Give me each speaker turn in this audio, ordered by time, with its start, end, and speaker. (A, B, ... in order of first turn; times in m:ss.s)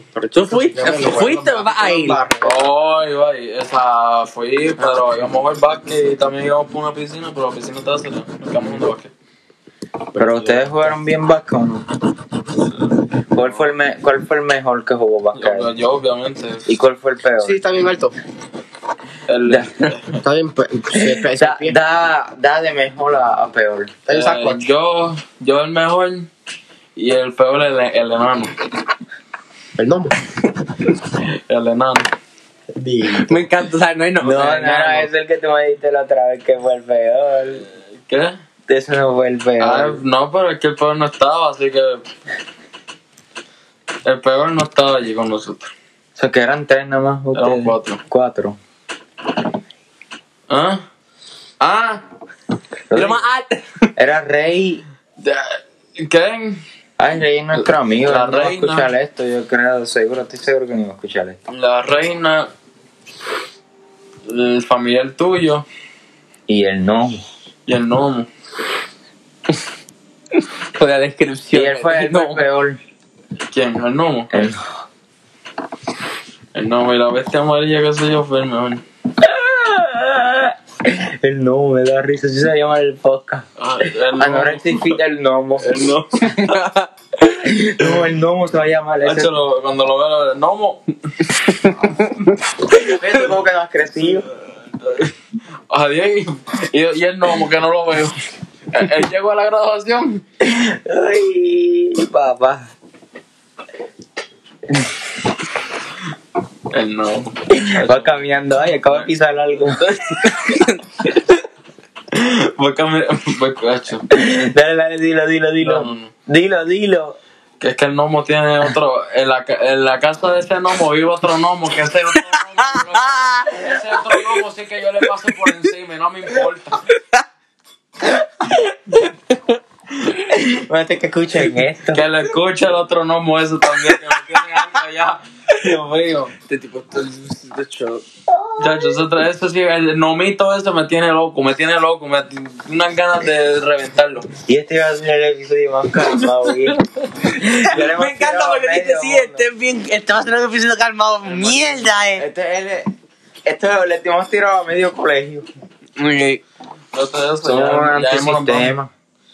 0:00.1-0:02.7 A
0:00.3-0:02.2 B
0:02.4-0:09.1 C
0:10.2-0:10.7 A
0:10.2-0:11.9 D
0:13.3-0:15.7 D
0:15.4-0:16.7 C
0:16.7-0:17.6 D
0:17.4-0:18.2 A
0:19.3-0:20.1 C
0:20.2-0:21.8 A
0:20.9-0:24.0 D
0:24.1-0:24.7 A
0:24.1-0:26.3 C
0:27.0-0:28.5 C
0:29.8-0:30.2 A
0:31.5-0:32.1 C
0:32.7-0:33.5 A
0:33.1-0:35.1 B
0:34.2-0:37.6 D
0:38.1-0:38.4 C
0:38.7-0:40.0 D
0:39.6-0:42.0 C
0:44.0-0:45.7 C
0:46.2-0:48.6 D
0:47.4-0:48.0 C
0:50.5-0:50.8 C
0:51.6-0:52.0 C
0:52.9-0:53.2 D
0:52.9-0:53.9 B
0:54.0-0:54.8 D
0:55.2-0:56.6 C
0:57.0-1:01.4 D
0:58.0-0:58.9 C
1:01.5-1:02.5 C
1:04.3-1:05.7 C
1:06.5-1:07.2 D
1:07.7-1:08.3 C
1:10.4-1:12.4 B
1:11.5-1:12.8 D
1:13.5-1:14.5 C
1:14.3-1:14.6 D
1:16.5-1:18.8 C
1:19.2-1:23.5 D
1:23.6-1:25.0 C
1:24.2-1:25.8 D
1:25.6-1:26.6 C
1:26.3-1:26.9 B
1:27.4-1:29.3 D
1:29.0-1:30.8 C
1:31.5-1:32.8 B
1:32.7-1:34.3 D
1:34.8-1:35.1 C
1:35.7-1:40.2 C
1:40.4-1:42.7 D
1:46.7-1:48.2 C
1:47.5-1:49.9 D
1:49.9-1:50.8 B
1:52.1-1:54.1 C
1:54.1-1:57.2 D
1:55.6-1:56.1 C
1:57.6-2:06.8 C
2:02.7-2:03.5 B
2:10.2-2:12.0 D
2:11.9-2:16.3 C
2:16.4-2:18.0 B
2:18.3-2:19.0 D
2:18.6-2:24.3 C
2:24.5-2:26.8 D
2:27.3-2:29.5 D
2:27.6-2:32.3 B
2:31.3-2:31.8 C
2:32.2-2:32.9 D
2:33.5-2:35.5 D
2:36.0-2:36.4 B
2:36.9-2:38.7 C
2:37.4-2:38.9 D